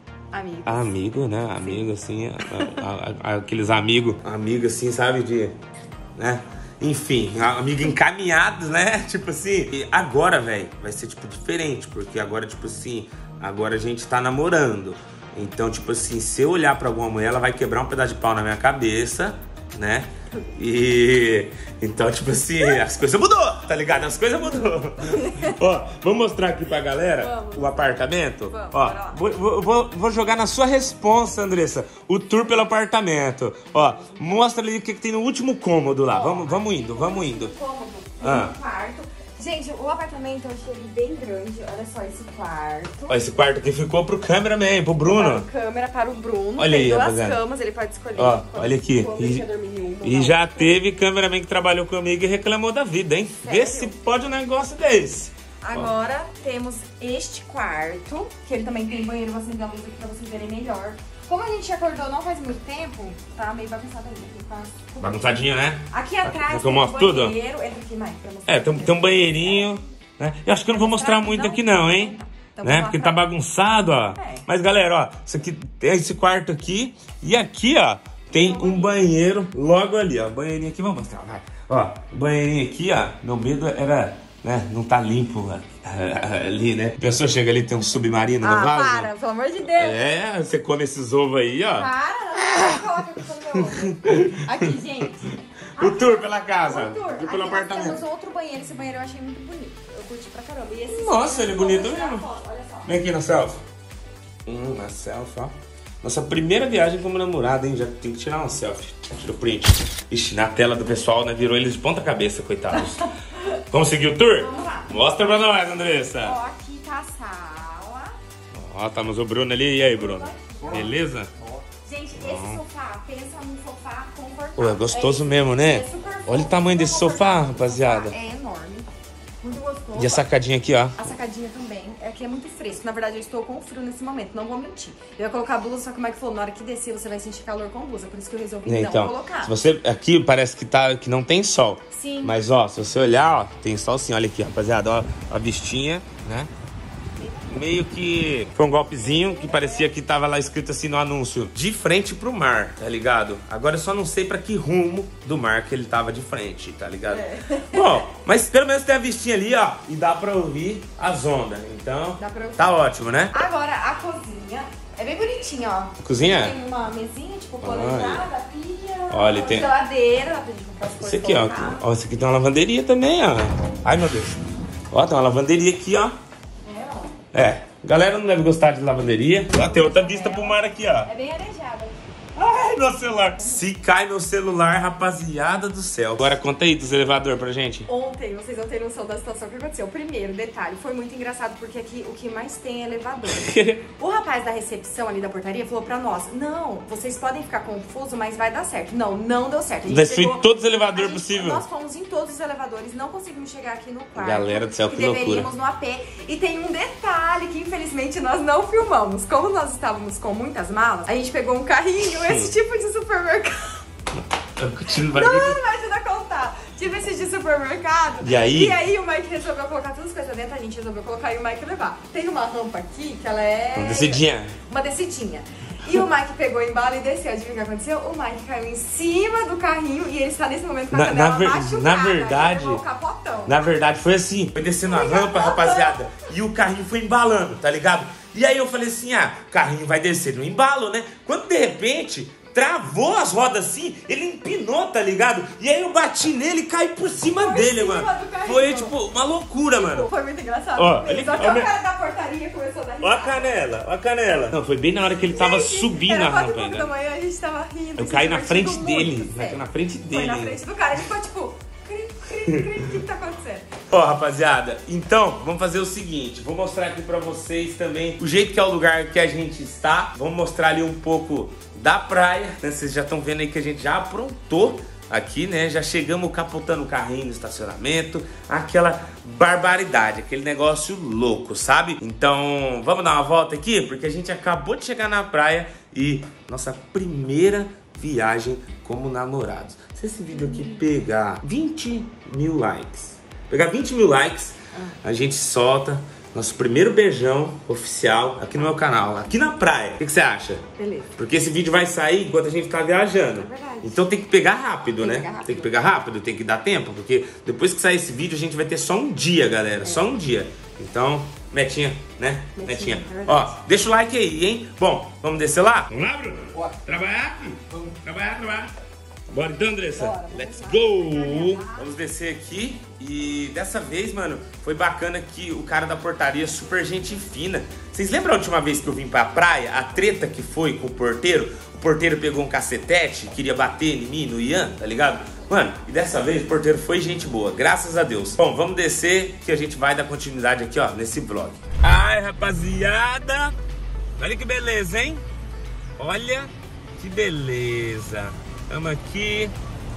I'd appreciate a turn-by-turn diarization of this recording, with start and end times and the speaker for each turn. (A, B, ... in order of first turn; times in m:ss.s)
0:00.3-0:01.0 A
0:00.7-0:05.6 B
0:01.5-0:01.9 A
0:02.4-0:02.8 A
0:06.2-0:37.5 B
0:27.2-0:29.2 A
0:36.1-0:43.2 A
0:38.2-0:38.5 B
0:43.1-0:45.5 B
0:45.0-0:50.8 A
0:46.6-0:47.4 B
0:48.2-0:49.4 B
0:50.0-0:55.9 B
0:53.4-0:53.9 A
0:55.6-1:09.9 A
1:05.0-1:07.4 B
1:08.5-1:29.1 B
1:10.6-1:13.2 A
1:14.1-1:14.5 A
1:18.3-1:19.1 A
1:28.4-1:30.1 A
1:29.6-1:31.9 B
1:31.8-1:42.9 A
1:32.6-1:32.8 B
1:33.6-1:34.7 B
1:35.8-1:38.0 B
1:40.9-1:42.2 B
1:42.9-1:43.6 B
1:44.5-1:53.1 B
1:53.7-1:56.4 B
1:54.3-1:58.1 A
1:58.5-2:01.3 B
1:59.8-2:00.9 A
2:01.8-2:08.9 A
2:02.2-2:02.6 B
2:04.6-2:08.1 B
2:09.4-2:10.3 A
2:10.0-2:11.0 B
2:11.0-2:19.5 A
2:18.6-2:26.5 B
2:21.9-2:22.4 A
2:27.2-2:27.6 A
2:27.5-2:43.4 B
2:28.9-2:29.9 A
2:37.1-2:38.0 A
2:42.2-2:42.7 A
2:43.3-2:51.8 A
2:46.0-2:46.6 B
2:47.6-2:48.3 B
2:49.1-2:49.7 B
2:51.0-2:56.2 B
2:56.6-2:57.1 A
2:57.3-3:01.1 B
2:59.5-3:02.0 A
3:02.4-3:07.9 B
3:07.9-3:33.8 A
3:13.3-3:13.8 B
3:19.9-3:21.6 B
3:24.2-3:25.5 B
3:32.2-3:32.5 B
3:34.6-3:35.6 B
3:35.0-3:53.7 A
3:38.2-3:38.8 B
3:43.8-3:44.6 B
3:50.9-3:52.8 B
3:53.5-4:10.1 B
3:54.8-3:56.0 A
4:07.4-4:08.9 A
4:09.7-4:13.6 A
4:10.8-4:11.7 B
4:13.0-4:16.9 B
4:15.3-4:23.7 A
4:18.0-4:20.6 B
4:23.9-5:00.6 B
4:50.3-4:50.8 A
5:00.8-5:01.1 A
5:01.2-5:18.7 B
5:03.4-5:04.0 A
5:05.0-5:05.8 A
5:12.6-5:13.5 A
5:19.3-5:43.5 B
5:20.0-5:21.8 A
5:44.2-5:45.2 B
5:46.0-5:49.5 B